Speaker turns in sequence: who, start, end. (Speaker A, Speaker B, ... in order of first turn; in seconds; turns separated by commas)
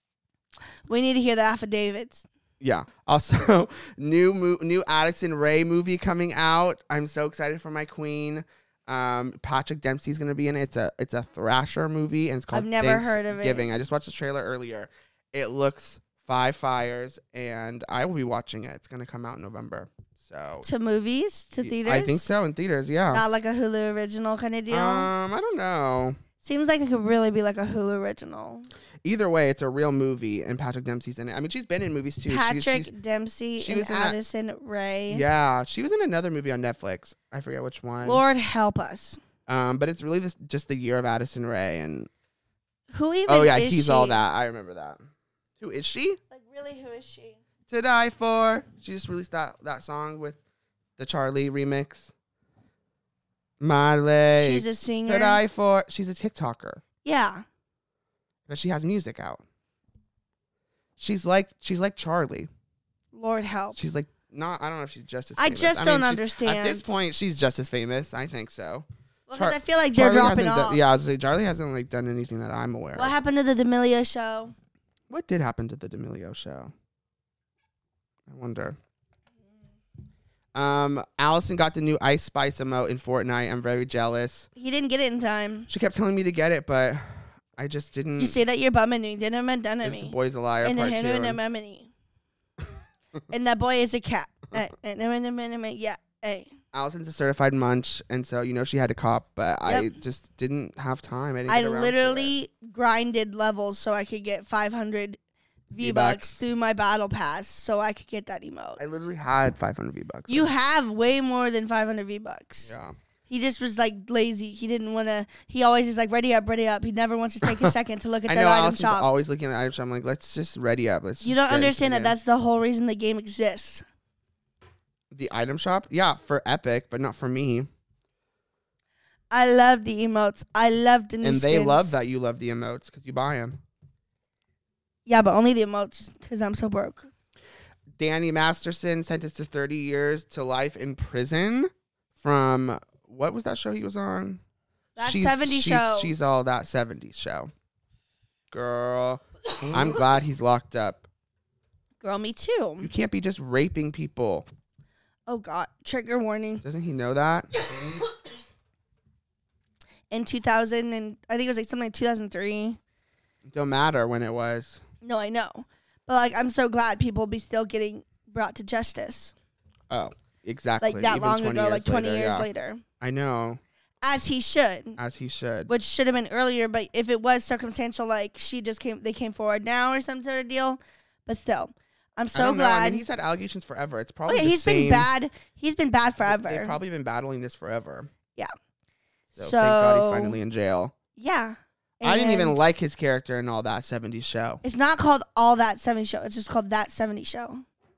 Speaker A: 0.9-2.2, Speaker B: 2.6-20.7, Speaker A: 12.5-13.7, Speaker A: 20.6-22.2, Speaker B: 21.6-23.2, Speaker A: 23.1-25.1, Speaker B: 24.7-26.2, Speaker A: 26.4-28.7, Speaker B: 29.0-32.9, Speaker A: 32.3-35.2, Speaker B: 33.6-34.2, Speaker B: 35.1-38.2, Speaker A: 38.0-39.2, Speaker B: 39.5-42.1, Speaker A: 42.9-44.2, Speaker B: 43.3-45.0, Speaker B: 45.6-46.2, Speaker A: 46.3-47.4, Speaker B: 47.7-50.4, Speaker B: 51.0-52.1, Speaker B: 53.6-56.8, Speaker A: 54.4-55.4, Speaker A: 57.0-57.4, Speaker B: 58.5-59.4, Speaker B: 61.0-62.5, Speaker A: 63.1-63.8, Speaker B: 63.7-73.2, Speaker A: 65.4-66.9, Speaker A: 69.3-70.8, Speaker A: 72.9-74.5, Speaker B: 75.1-76.7, Speaker B: 78.3-78.8, Speaker B: 80.5-84.5, Speaker A: 84.6-85.7, Speaker B: 85.7-88.4, Speaker A: 88.2-91.9, Speaker B: 89.8-91.4, Speaker A: 93.3-96.5, Speaker B: 96.7-102.3, Speaker A: 99.7-99.9, Speaker A: 101.5-105.2, Speaker A: 105.7-108.8, Speaker B: 105.8-106.4, Speaker B: 108.8-110.5, Speaker A: 110.3-112.7, Speaker B: 112.6-113.0, Speaker A: 113.3-119.1, Speaker B: 117.4-117.7, Speaker B: 118.2-122.2, Speaker A: 121.2-123.8, Speaker B: 125.1-127.7, Speaker A: 129.3-132.0, Speaker B: 131.2-133.6, Speaker A: 135.1-137.1, Speaker B: 137.9-144.4, Speaker A: 144.9-146.1, Speaker B: 145.0-147.5, Speaker B: 148.5-151.1, Speaker A: 152.0-152.9, Speaker B: 152.8-154.5, Speaker A: 155.3-156.6, Speaker B: 156.6-157.5, Speaker A: 160.1-162.8, Speaker B: 163.4-164.8, Speaker A: 165.0-169.3, Speaker B: 169.9-172.5, Speaker A: 170.8-172.8, Speaker B: 173.0-173.6, Speaker A: 174.0-175.0, Speaker B: 175.0-175.7, Speaker A: 175.7-183.0, Speaker B: 182.3-185.1, Speaker A: 184.3-186.8, Speaker B: 186.2-188.1, Speaker B: 189.3-190.9, Speaker A: 189.3-190.4, Speaker A: 191.2-192.6, Speaker B: 192.0-194.6, Speaker A: 194.6-197.6